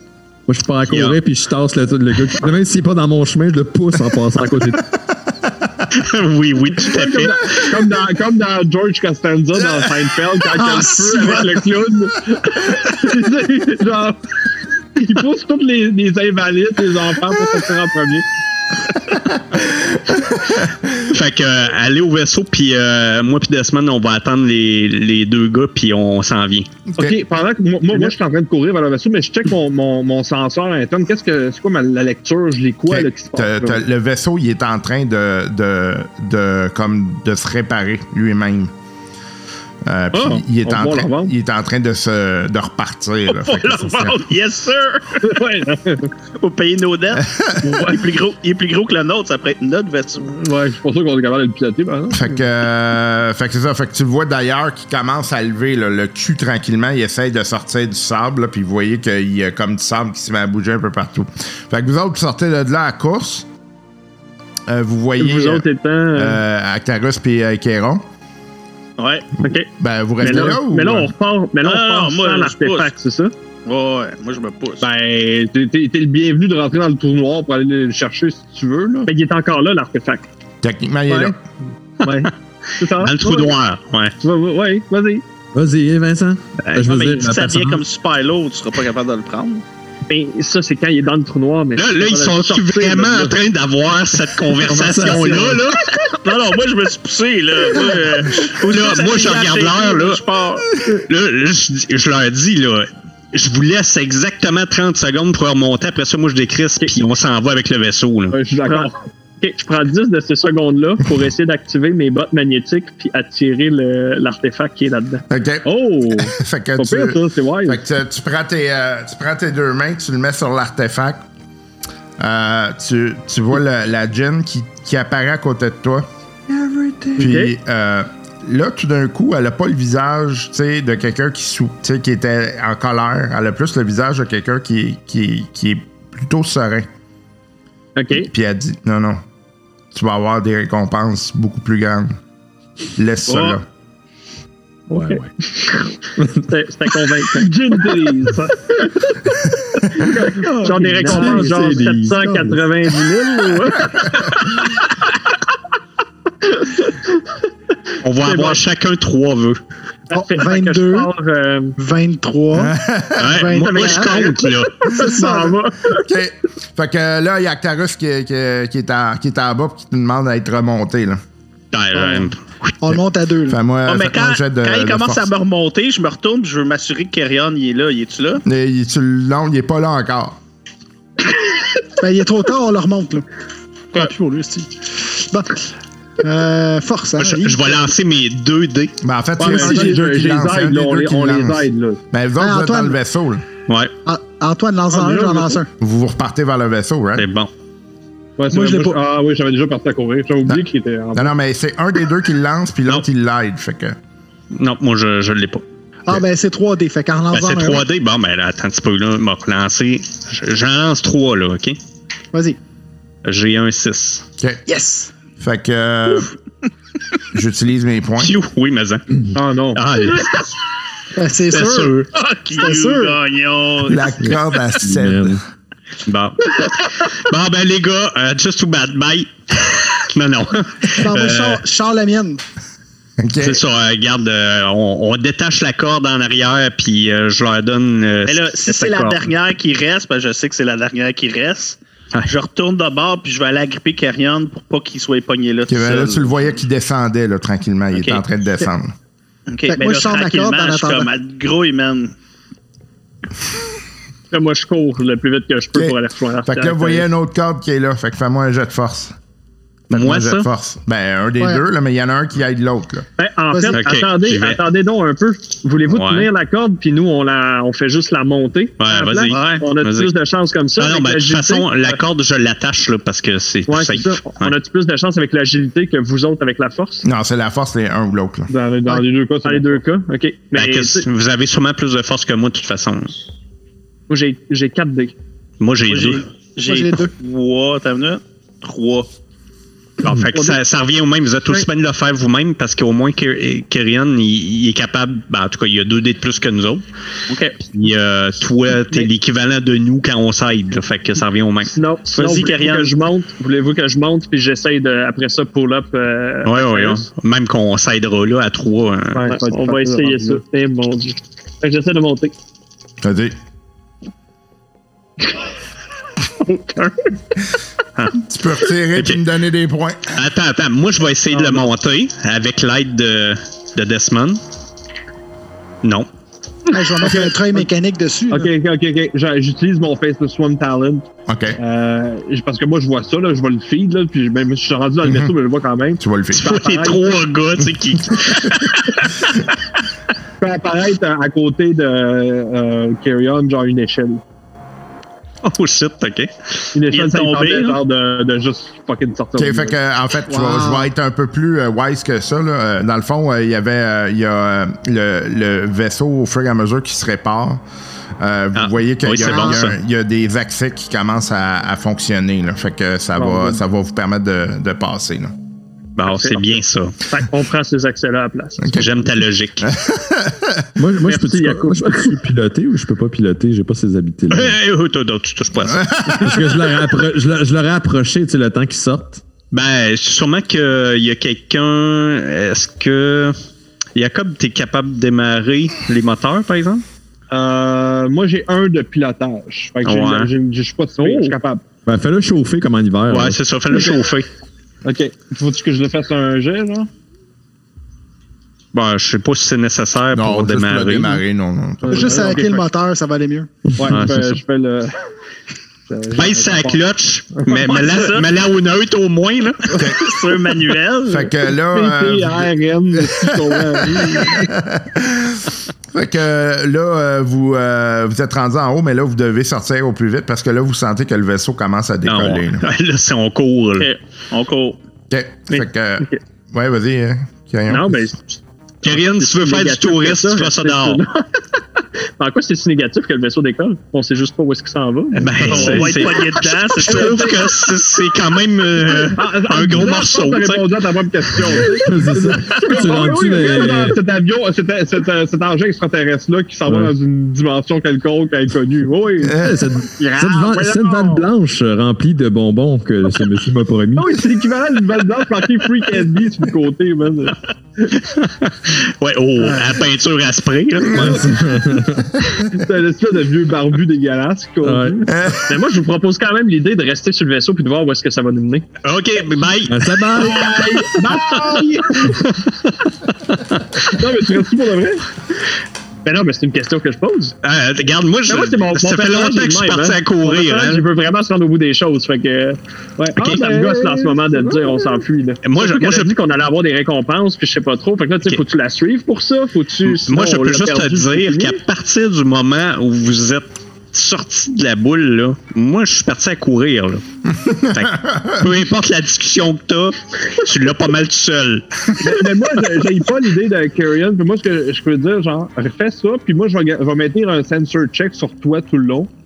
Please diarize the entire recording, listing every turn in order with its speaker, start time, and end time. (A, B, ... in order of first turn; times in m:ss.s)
0:00.5-0:04.8 A
0:00.9-0:01.2 B
0:05.3-0:05.9 C
0:05.9-0:07.7 B
0:06.8-0:14.2 D
0:10.5-0:11.7 E
0:14.9-0:18.2 D
0:19.5-0:20.9 C
0:21.0-0:26.7 B
0:27.0-0:33.8 D
0:32.9-0:38.7 C
0:39.8-0:44.2 C
0:40.1-0:41.3 D
0:43.3-0:45.4 F
0:45.2-0:46.1 D
0:46.4-0:50.4 F
0:47.1-0:47.9 C
0:50.3-0:52.3 D
0:52.1-1:03.5 C
1:04.7-1:08.0 C
1:05.2-1:06.4 G
1:09.0-1:09.3 F
1:09.4-1:09.7 G
1:09.8-1:11.1 C
1:10.2-1:13.3 G
1:11.6-1:12.9 F
1:13.6-1:14.9 F
1:14.8-1:19.1 D
1:19.1-1:20.2 G
1:20.6-1:21.4 C
1:21.1-1:21.4 D
1:22.0-1:23.6 D
1:23.0-1:24.2 B
1:24.2-1:25.2 D
1:25.5-1:27.8 A
1:26.7-1:29.6 F
1:30.1-1:33.3 G
1:31.8-1:35.8 B
1:34.6-1:35.7 A
1:36.1-1:40.6 F
1:38.4-1:40.2 B
1:41.1-1:48.4 B
1:48.3-1:48.9 D
1:48.6-1:55.2 G
1:55.3-2:01.2 C
1:55.6-1:57.8 D
2:02.2-2:06.1 C
2:07.2-2:16.9 C
2:07.2-2:07.5 G
2:18.0-2:18.3 G
2:18.1-2:19.2 C
2:19.9-2:22.2 C
2:23.0-2:23.6 C
2:23.3-2:23.6 F
2:24.9-2:29.1 G
2:24.9-2:25.3 A
2:26.2-2:26.4 A
2:27.3-2:28.5 D
2:29.9-2:34.9 G
2:30.0-2:31.7 D
2:31.0-2:32.7 A
2:36.4-2:37.2 G
2:38.0-2:39.6 B
2:38.2-2:38.6 G
2:40.1-2:41.8 G
2:40.1-2:41.1 E
2:41.8-2:45.6 E
2:42.5-2:43.4 C
2:43.2-2:44.8 B
2:43.8-2:46.0 G
2:46.0-2:51.2 C
2:51.7-2:52.7 B
2:51.9-2:53.6 E
2:53.5-2:55.3 C
2:53.8-2:58.4 F
2:58.4-3:00.4 C
3:02.0-3:03.2 E
3:03.9-3:05.6 E
3:06.2-3:07.9 E
3:07.2-3:09.0 B
3:09.0-3:13.4 C
3:09.4-3:12.0 D
3:09.5-3:09.9 E
3:12.4-3:13.0 E
3:14.0-3:15.7 E
3:14.9-3:15.6 D
3:15.8-3:17.3 C
3:17.2-3:17.5 B
3:18.4-3:21.3 D
3:18.5-3:19.0 E
3:20.4-3:24.0 C
3:24.5-3:25.6 B
3:26.1-3:27.8 E
3:27.3-3:31.8 B
3:32.3-3:32.6 E
3:33.2-3:34.2 B
3:34.7-3:35.1 E
3:35.4-3:36.3 C
3:37.3-3:38.3 C
3:38.2-3:40.5 B
3:39.3-3:39.8 D
3:41.1-3:43.2 E
3:41.5-3:42.1 B
3:42.1-3:44.2 F
3:43.8-3:45.4 C
3:44.2-3:45.4 A
3:46.0-3:51.6 B
3:51.0-3:52.4 E
3:53.2-3:53.6 C
3:53.4-3:59.2 B
3:58.2-4:06.5 F
4:05.7-4:08.9 C
4:07.9-4:08.2 B
4:09.5-4:12.1 F
4:09.7-4:11.1 E
4:14.3-4:17.1 G
4:15.8-4:19.2 C
4:19.9-4:23.1 C
4:19.9-4:20.5 B
4:23.2-4:32.0 G
4:23.5-4:23.8 E
4:23.7-4:24.6 B
4:25.9-4:26.3 B
4:28.8-4:30.1 B
4:29.3-4:29.6 F
4:30.8-4:34.5 B
4:33.7-4:37.1 G
4:37.0-4:38.5 C
4:38.5-4:39.8 D
4:38.9-4:41.1 G
4:40.5-4:43.2 B
4:44.1-4:45.1 G
4:45.6-4:46.2 B
4:45.9-4:49.1 F
4:46.6-4:47.1 E
4:50.0-4:56.8 B
4:50.3-4:50.6 G
4:57.3-4:57.6 F
4:57.7-5:01.8 B
5:01.6-5:07.1 G
5:02.1-5:03.0 F
5:06.4-5:09.2 B
5:09.1-5:10.4 D
5:09.2-5:12.3 G
5:13.0-5:13.4 C
5:16.2-5:17.2 G
5:18.2-5:20.2 C
5:18.9-5:19.2 B
5:20.1-5:24.4 B
5:21.3-5:21.7 D
5:25.8-5:26.1 B
5:26.7-5:28.5 E
5:27.0-5:27.7 D
5:28.3-5:31.1 D
5:31.3-5:31.6 C
5:31.6-5:37.3 D
5:35.0-5:35.3 C
5:36.0-5:36.5 C
5:36.3-5:39.3 B
5:37.6-5:38.4 C
5:40.4-5:44.2 D
5:45.4-5:46.7 B
5:46.7-5:49.8 D
5:46.9-5:47.8 F
5:49.4-5:57.6 C
5:50.3-5:50.9 E
5:58.2-6:05.3 C
5:58.5-5:59.7 B
5:59.2-5:59.6 E
6:03.2-6:03.6 D
6:06.0-6:07.0 B
6:06.1-6:08.9 G
6:08.6-6:08.9 C
6:08.8-6:09.7 B
6:09.6-6:10.7 C
6:10.8-6:14.6 A
6:11.0-6:12.2 G
6:14.3-6:15.9 B
6:15.6-6:16.8 C
6:16.1-6:19.2 A
6:19.5-6:23.4 B
6:23.9-6:26.8 B
6:27.3-6:31.6 D
6:29.8-6:30.3 B
6:31.0-6:31.4 G
6:31.8-6:33.4 A
6:33.1-6:34.3 B
6:34.8-6:36.9 D
6:38.7-6:41.2 B
6:40.1-6:42.4 C
6:41.8-6:42.6 D
6:41.9-6:43.6 E
6:43.7-6:44.1 A
6:43.8-6:45.0 D
6:43.9-6:44.4 B
6:45.9-6:46.8 D
6:46.2-6:49.7 B
6:47.3-6:47.6 D
6:47.5-6:48.3 F
6:49.8-6:50.0 C
6:49.8-6:51.3 F
6:51.1-7:02.7 C
6:51.7-6:54.5 D
7:02.0-7:03.9 B
7:04.3-7:04.8 F
7:05.1-7:08.0 C
7:05.5-7:06.2 G
7:07.7-7:11.4 G
7:08.8-7:11.0 B
7:12.2-7:16.2 G
7:15.2-7:21.7 B
7:15.4-7:17.6 F
7:16.8-7:17.4 D
7:18.8-7:29.4 D
7:21.7-7:24.0 A
7:26.6-7:26.9 A
7:29.3-7:34.2 A
7:29.3-7:29.7 C
7:30.0-7:31.2 D
7:33.9-7:37.9 D
7:38.0-7:41.3 B
7:39.5-7:39.8 D
7:40.9-7:42.2 A
7:40.9-7:41.7 D
7:42.5-7:45.1 D
7:44.6-7:45.0 A
7:45.1-7:45.6 C
7:45.4-7:48.6 G
7:48.8-7:50.3 B
7:49.7-7:50.6 A
7:50.1-7:52.3 D
7:53.3-7:53.6 B
7:53.9-7:55.0 D
7:56.0-7:57.4 G
7:57.4-8:00.8 B
7:58.3-8:02.6 G
8:03.0-8:05.1 D
8:03.2-8:11.6 G
8:05.4-8:06.1 B
8:09.8-8:17.0 B
8:17.3-8:18.6 C
8:17.7-8:21.8 B
8:22.0-8:29.1 D